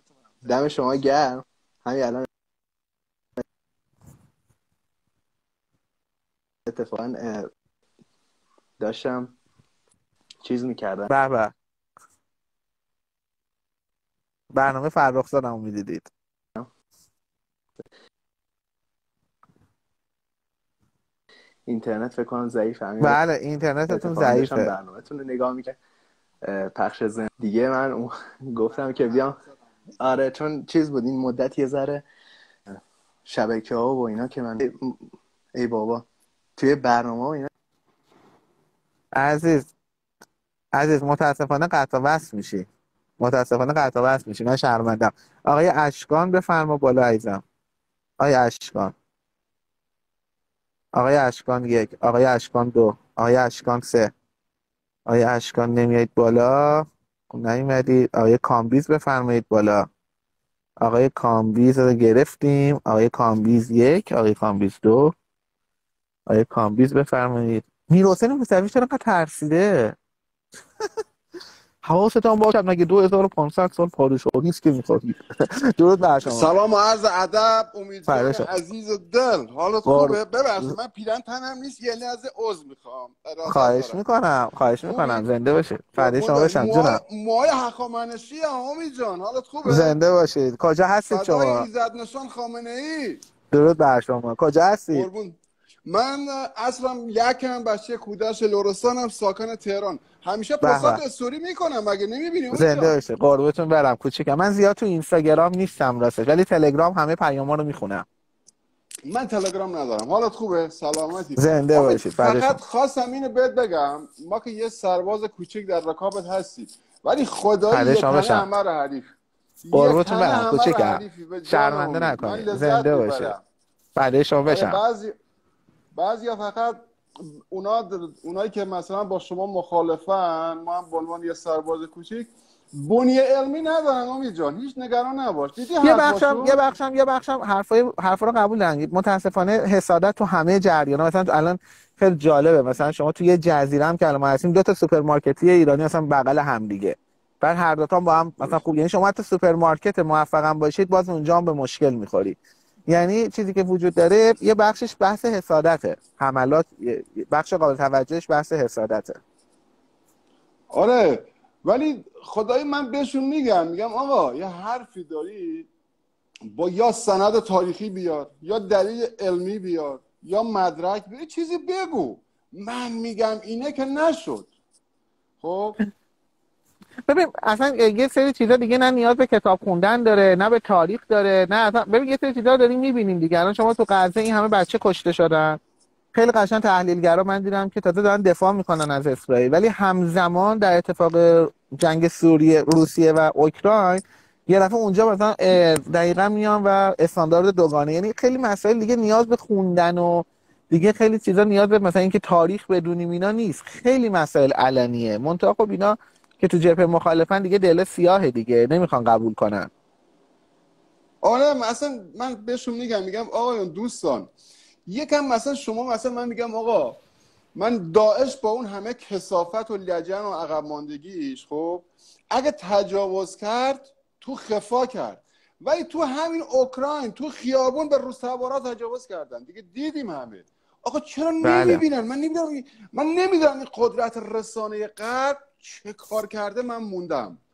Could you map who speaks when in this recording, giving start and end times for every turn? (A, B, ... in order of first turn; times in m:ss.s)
0:00.4-0:02.3 A
0:06.6-0:07.5 A
0:08.8-0:09.3 A
0:10.4-0:11.1 A
0:11.1-0:11.5 B
0:14.5-0:16.1 B
0:21.7-0:23.2 A
0:23.0-0:24.7 B
0:23.9-0:25.8 A
0:26.4-0:29.4 A
0:30.0-0:32.0 A
0:32.7-0:35.0 A
0:35.6-0:36.0 A
0:36.6-0:37.5 A
0:39.2-0:39.7 B
0:40.7-0:42.7 B
0:43.2-0:47.4 B
0:48.2-0:48.9 B
0:51.0-0:54.1 B
0:55.1-0:59.8 B
1:00.8-1:05.1 B
1:06.3-1:10.0 B
1:11.8-1:16.5 B
1:16.2-1:24.0 C
1:18.1-1:18.5 B
1:19.8-1:20.8 B
1:23.4-1:27.0 B
1:24.9-1:25.2 C
1:26.0-1:30.0 C
1:29.6-1:31.7 B
1:31.1-1:33.2 C
1:33.5-1:35.1 B
1:34.9-1:35.3 C
1:35.8-1:42.9 C
1:40.6-1:41.0 B
1:42.5-1:48.0 B
1:49.0-1:59.1 C
1:51.4-1:52.6 B
1:57.7-1:58.5 B
1:59.6-2:03.4 C
1:59.7-2:03.4 B
2:04.0-2:04.8 B
2:04.4-2:05.1 C
2:05.9-2:16.6 C
2:15.8-2:32.4 B
2:32.9-2:39.2 B
2:40.7-2:45.7 C
2:46.5-2:54.5 C
2:55.4-2:55.8 C
2:57.1-3:05.6 B
3:06.1-3:29.7 B
3:31.2-3:34.3 C
3:34.9-3:37.0 C
3:37.5-3:57.4 C
3:51.4-3:51.8 B